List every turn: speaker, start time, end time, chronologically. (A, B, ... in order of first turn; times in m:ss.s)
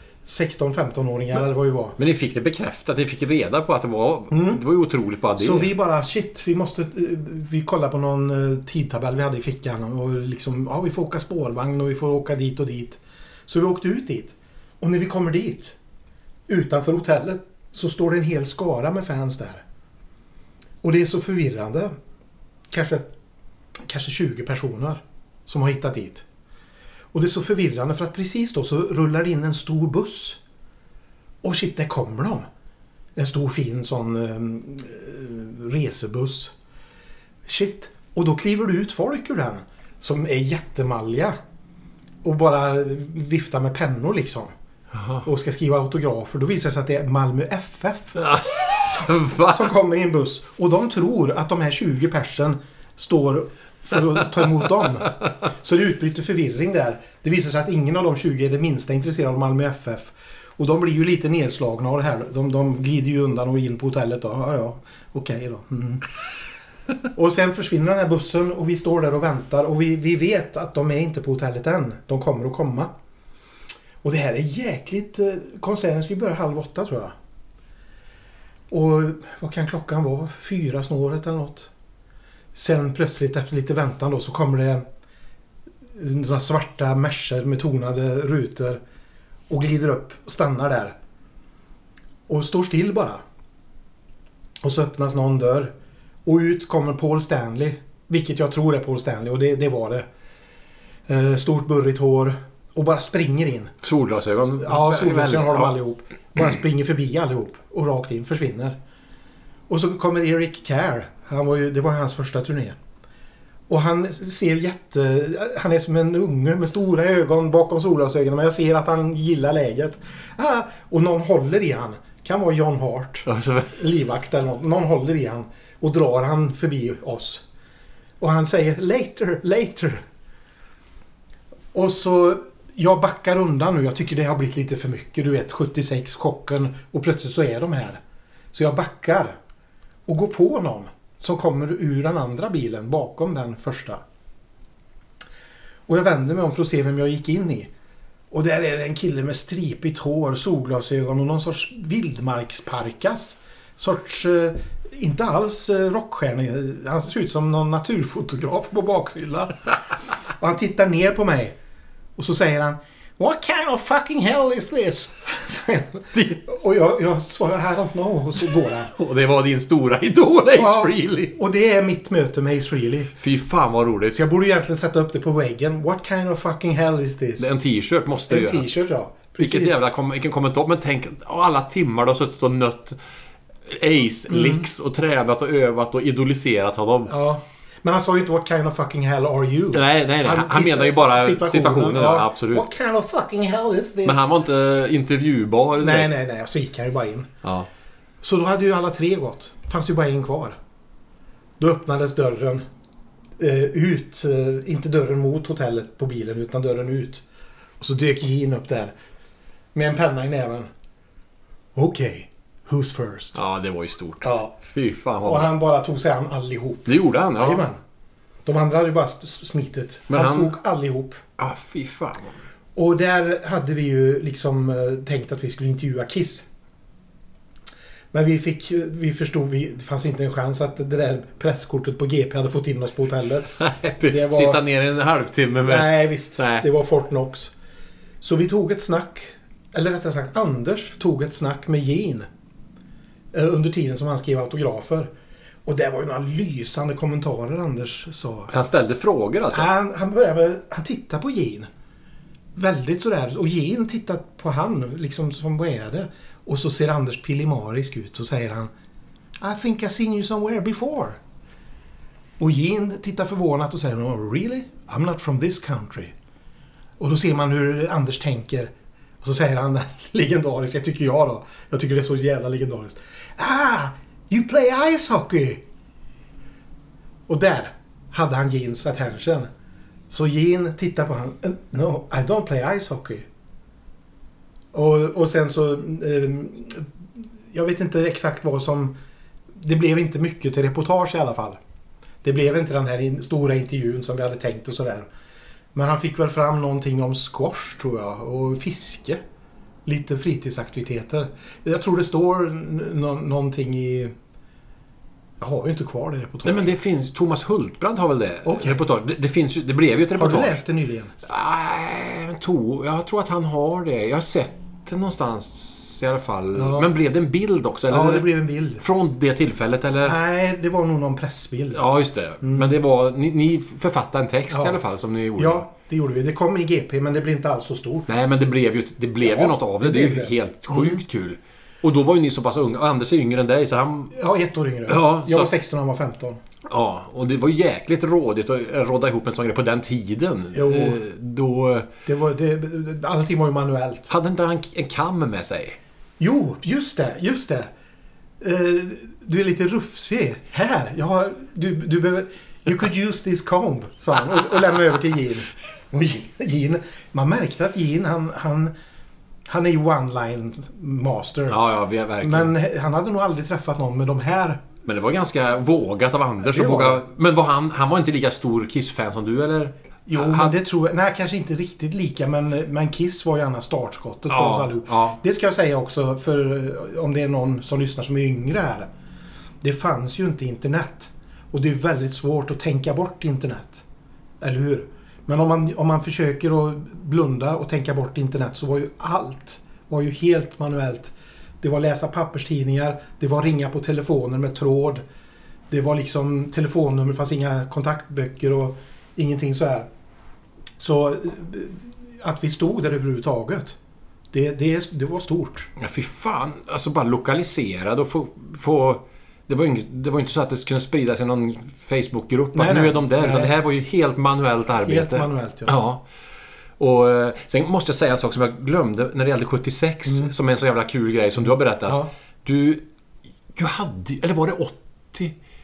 0:00.2-0:02.0 A
0:02.0-0:05.7 B
0:04.3-0:04.6 A
0:05.4-0:15.8 A
0:16.5-0:19.6 A
0:20.8-0:21.9 A
0:22.7-0:23.0 A
0:23.9-0:26.2 A
0:27.1-0:30.4 A
0:31.4-0:32.4 A
0:33.2-0:36.5 A
0:37.4-0:41.4 A
0:42.2-0:44.5 A
0:44.9-0:45.2 B
0:45.2-1:06.0 A
0:48.2-0:49.7 B
1:07.1-1:12.9 A
1:14.0-1:17.1 A
1:18.7-1:21.7 A
1:22.5-1:24.8 A
1:25.9-1:28.8 A
1:29.5-1:31.0 A
1:32.3-1:33.2 A
1:34.6-1:35.7 A
1:36.2-1:40.1 A
1:41.1-1:43.8 A
1:43.8-1:45.7 B
1:44.5-1:48.8 A
1:49.7-1:52.8 A
1:53.7-2:07.4 A
2:03.2-2:03.8 B
2:08.2-2:10.0 A
2:11.7-2:18.0 A
2:18.5-2:19.4 A
2:20.1-2:24.0 A
2:25.9-2:27.7 A
2:28.3-2:39.7 A
2:40.4-2:41.6 A
2:42.2-2:48.9 A
2:46.1-2:46.4 B
2:48.9-2:51.3 B
2:50.5-2:53.1 A
2:53.2-2:54.2 B
2:54.1-2:57.5 A
2:57.4-2:58.7 B
2:58.3-2:59.8 A
2:59.4-3:03.0 B
3:03.7-3:07.1 B
3:04.3-3:04.6 A
3:07.1-3:14.3 A
3:09.7-3:12.6 B
3:14.0-3:16.2 B
3:15.8-3:17.3 A
3:18.2-3:20.5 A
3:21.6-3:22.6 A
3:23.4-3:27.2 A
3:27.8-3:28.9 A
3:29.7-3:30.7 A
3:31.8-3:33.4 A
3:33.3-3:35.5 B
3:34.2-3:34.6 A
3:35.2-3:37.8 A
3:36.8-3:37.6 B
3:38.4-3:41.2 A
3:40.1-3:40.5 B
3:41.4-3:42.4 B
3:42.8-3:46.4 A
3:48.1-3:54.6 A
3:53.6-3:56.6 B
3:55.6-3:57.5 A
3:58.2-4:02.3 A
4:03.3-4:05.1 A
4:05.6-4:08.5 A
4:08.5-4:09.7 B
4:09.5-4:11.7 A
4:12.5-4:18.7 A
4:19.4-4:21.2 A
4:22.4-4:26.1 A
4:27.0-4:35.6 A
4:37.3-4:39.5 A
4:40.1-4:43.2 A
4:44.7-4:46.9 A
4:47.5-4:48.9 A
4:49.5-4:51.6 A
4:52.2-4:55.1 A
4:55.7-4:59.2 A
4:59.8-5:04.1 A
5:05.4-5:06.7 A
5:06.4-5:10.6 B
5:08.4-5:08.8 A
5:10.2-5:11.1 A
5:11.2-5:18.3 B
5:16.5-5:16.9 A
5:17.9-5:18.8 A
5:18.8-5:20.2 B
5:20.0-5:21.8 A
5:21.7-5:25.6 B
5:22.4-5:22.8 A
5:24.5-5:24.8 A
5:25.4-5:28.1 A
5:28.1-5:34.1 B
5:29.2-5:31.0 A
5:34.1-5:36.4 A
5:34.9-5:35.5 B
5:36.6-5:41.9 B
5:40.5-5:41.0 A
5:42.0-5:44.1 A
5:44.1-5:45.8 B
5:46.2-5:47.7 A
5:48.4-5:58.7 A
5:59.5-6:01.6 A
6:01.5-6:02.5 B
6:02.2-6:04.6 A
6:04.8-6:10.6 B
6:06.4-6:07.0 A
6:10.0-6:18.9 A
6:14.3-6:15.2 B
6:19.6-6:23.8 A
6:24.4-6:35.0 A
6:35.7-6:39.9 A
6:40.8-6:43.8 A
6:44.3-6:45.7 A
6:45.8-6:56.0 B
6:52.5-6:53.5 A
6:54.8-6:55.8 A
6:56.8-7:02.8 B
7:00.0-7:00.3 A
7:01.8-7:02.1 A
7:03.5-7:05.3 B